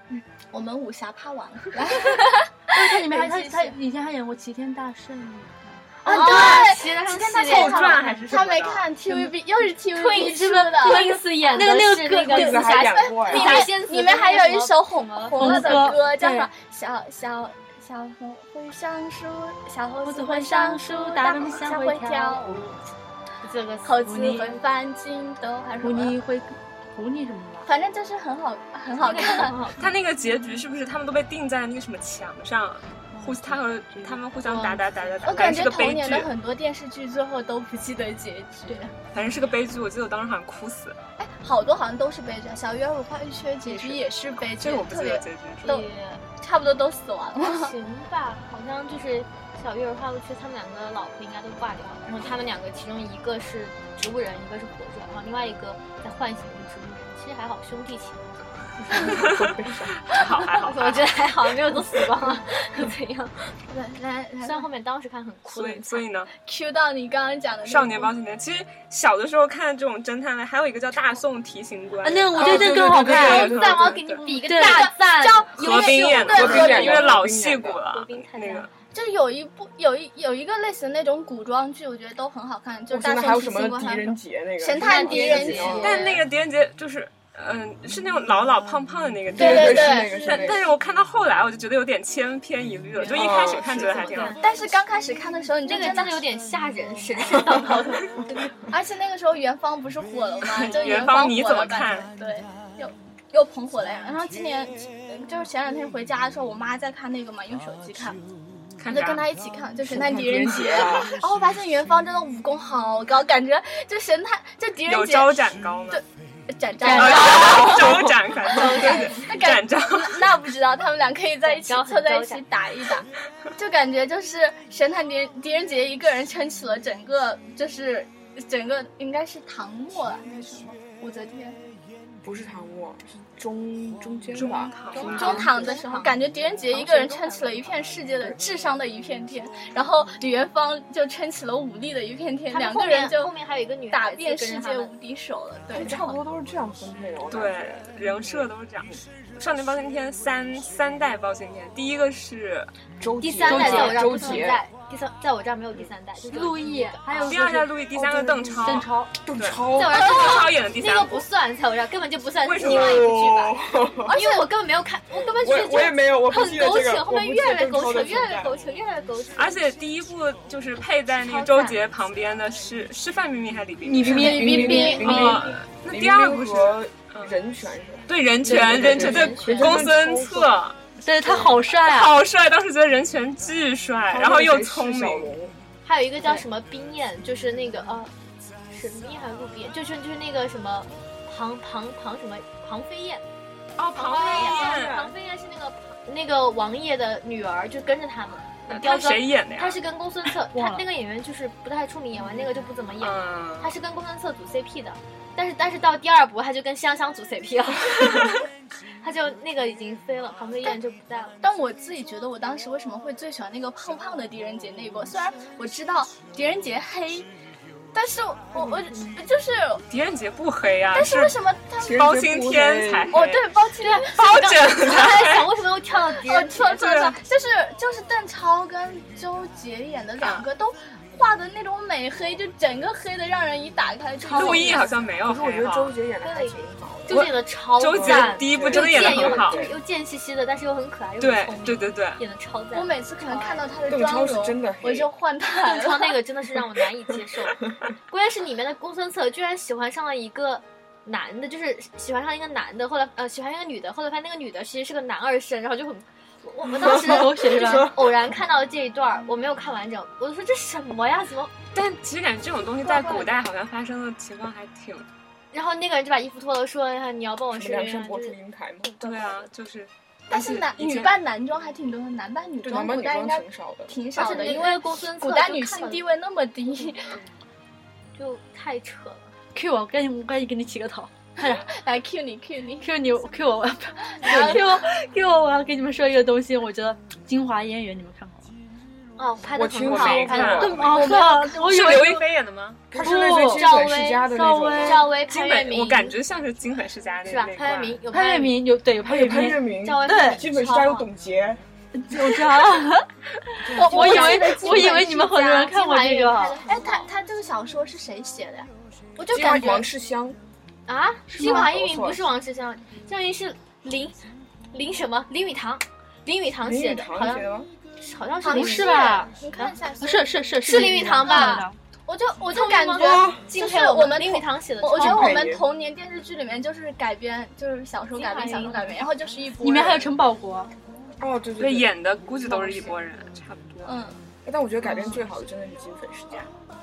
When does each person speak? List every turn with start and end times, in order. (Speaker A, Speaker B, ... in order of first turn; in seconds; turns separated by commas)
Speaker A: 0.1-3.8, Speaker B: 2.7-5.8, Speaker C: 6.0-8.0, Speaker A: 6.0-11.2, Speaker D: 6.2-6.6, Speaker D: 7.4-8.9, Speaker B: 9.0-9.4, Speaker B: 9.9-12.7, Speaker C: 10.0-16.0, Speaker E: 12.2-13.7, Speaker A: 12.9-22.7, Speaker B: 15.3-16.5, Speaker B: 20.0-22.7, Speaker C: 23.4-24.1, Speaker A: 23.8-26.2, Speaker B: 24.0-24.6, Speaker B: 25.8-27.7, Speaker A: 27.6-29.8, Speaker C: 28.9-29.8, Speaker D: 29.8-36.3, Speaker B: 33.1-34.7, Speaker A: 35.2-38.9, Speaker D: 39.1-41.0, Speaker A: 41.2-45.9, Speaker D: 43.8-45.7, Speaker C: 45.6-46.2, Speaker A: 46.4-47.7, Speaker C: 47.4-58.3, Speaker E: 58.8-59.9, Speaker D: 59.1-59.4, Speaker D: 60.0-61.1, Speaker C: 60.6-63.4, Speaker A: 63.7-64.7, Speaker C: 64.4-66.0, Speaker D: 65.5-66.3, Speaker A: 66.4-68.1, Speaker D: 67.6-74.3, Speaker B: 72.0-73.6, Speaker E: 72.4-73.5, Speaker C: 72.5-77.0, Speaker B: 74.2-76.3, Speaker A: 74.6-77.2, Speaker D: 75.6-78.7, Speaker E: 76.2-77.8, Speaker C: 77.8-78.7, Speaker A: 78.9-86.2, Speaker E: 82.9-86.0, Speaker C: 84.8-86.2, Speaker D: 85.8-94.4, Speaker E: 89.3-90.7, Speaker A: 89.4-90.2, Speaker C: 92.9-94.8, Speaker E: 93.0-94.2, Speaker A: 94.4-96.2, Speaker C: 95.6-98.5, Speaker A: 98.7-108.2, Speaker D: 100.4-102.1, Speaker D: 108.8-109.2, Speaker A: 108.9-131.6, Speaker E: 109.8-111.3, Speaker D: 114.8-116.0, Speaker B: 116.8-117.3, Speaker D: 116.8-120.2, Speaker C: 116.9-119.2, Speaker E: 117.5-118.4, Speaker C: 121.4-122.4, Speaker E: 132.2-135.8, Speaker D: 134.3-135.4, Speaker A: 134.9-143.3, Speaker C: 135.0-137.8, Speaker C: 142.5-144.9, Speaker A: 143.9-146.2, Speaker E: 145.7-148.5, Speaker D: 147.3-152.7, Speaker E: 153.0-154.6, Speaker C: 153.2-157.4, Speaker B: 153.4-154.5, Speaker B: 156.2-157.7, Speaker D: 157.2-161.2, Speaker E: 157.9-160.1, Speaker B: 158.6-159.1, Speaker C: 159.7-163.6, Speaker D: 162.4-163.1, Speaker E: 162.6-164.2, Speaker A: 164.1-164.5, Speaker C: 164.1-169.6, Speaker E: 165.1-168.6, Speaker D: 169.3-177.3, Speaker C: 171.2-171.8, Speaker E: 173.9-180.6, Speaker B: 173.9-175.4, Speaker C: 174.2-175.5, Speaker D: 178.1-180.8, Speaker B: 178.5-179.9, Speaker C: 178.5-179.8, Speaker B: 181.0-182.2, Speaker D: 181.7-185.3, Speaker E: 184.1-185.5, Speaker C: 185.8-188.1, Speaker C: 188.7-193.2, Speaker D: 193.8-195.0, Speaker C: 193.9-208.4, Speaker E: 194.3-195.1, Speaker D: 198.7-199.8, Speaker B: 200.5-200.8, Speaker D: 203.0-203.8, Speaker C: 209.0-211.4, Speaker A: 211.4-217.3, Speaker A: 217.9-219.8, Speaker C: 218.5-219.2, Speaker D: 219.9-223.5, Speaker A: 220.9-222.1, Speaker E: 221.8-223.2, Speaker A: 223.1-224.6, Speaker C: 223.8-226.8, Speaker D: 224.1-225.5, Speaker A: 226.1-234.9, Speaker D: 226.5-227.2, Speaker D: 230.2-230.4, Speaker D: 234.3-235.9, Speaker E: 234.3-237.3, Speaker C: 234.4-234.8, Speaker C: 236.2-243.7, Speaker D: 237.1-239.6, Speaker E: 238.0-239.8, Speaker D: 241.2-242.2, Speaker A: 242.7-246.2, Speaker E: 243.9-245.1, Speaker C: 245.6-261.5, Speaker B: 256.8-257.9, Speaker D: 261.7-265.1, Speaker A: 262.8-263.3, Speaker C: 265.5-269.5, Speaker E: 267.5-269.1, Speaker D: 269.0-271.2, Speaker A: 270.3-277.2, Speaker E: 272.6-274.6, Speaker C: 274.1-276.0, Speaker C: 278.1-279.3, Speaker B: 279.5-281.6, Speaker A: 281.4-282.9, Speaker B: 282.8-288.5, Speaker A: 284.2-284.8, Speaker C: 289.2-290.7, Speaker E: 289.5-291.1, Speaker D: 289.8-290.8, Speaker A: 290.3-292.2, Speaker B: 290.6-292.2, Speaker D: 291.6-292.8, Speaker E: 292.9-295.1, Speaker B: 292.9-295.1, Speaker C: 293.3-296.2, Speaker D: 295.3-298.0, Speaker C: 297.2-298.6, Speaker B: 298.1-300.4, Speaker E: 299.0-301.6, Speaker C: 299.4-301.1, Speaker B: 301.9-306.6, Speaker E: 303.6-304.3, Speaker A: 303.8-305.7, Speaker C: 303.8-307.1, Speaker A: 306.6-309.9, Speaker E: 309.3-310.4, Speaker C: 310.9-314.2, Speaker B: 311.3-311.7, Speaker E: 311.3-312.3, Speaker C: 314.7-319.2, Speaker E: 316.6-317.7, Speaker A: 318.4-330.2, Speaker B: 318.5-321.8, Speaker C: 320.6-321.6, Speaker C: 322.5-325.4, Speaker E: 323.0-323.5, Speaker E: 324.9-325.6, Speaker C: 328.1-329.0, Speaker B: 329.6-330.7, Speaker E: 331.2-331.9, Speaker D: 331.6-333.9, Speaker A: 333.9-334.2, Speaker E: 334.4-336.5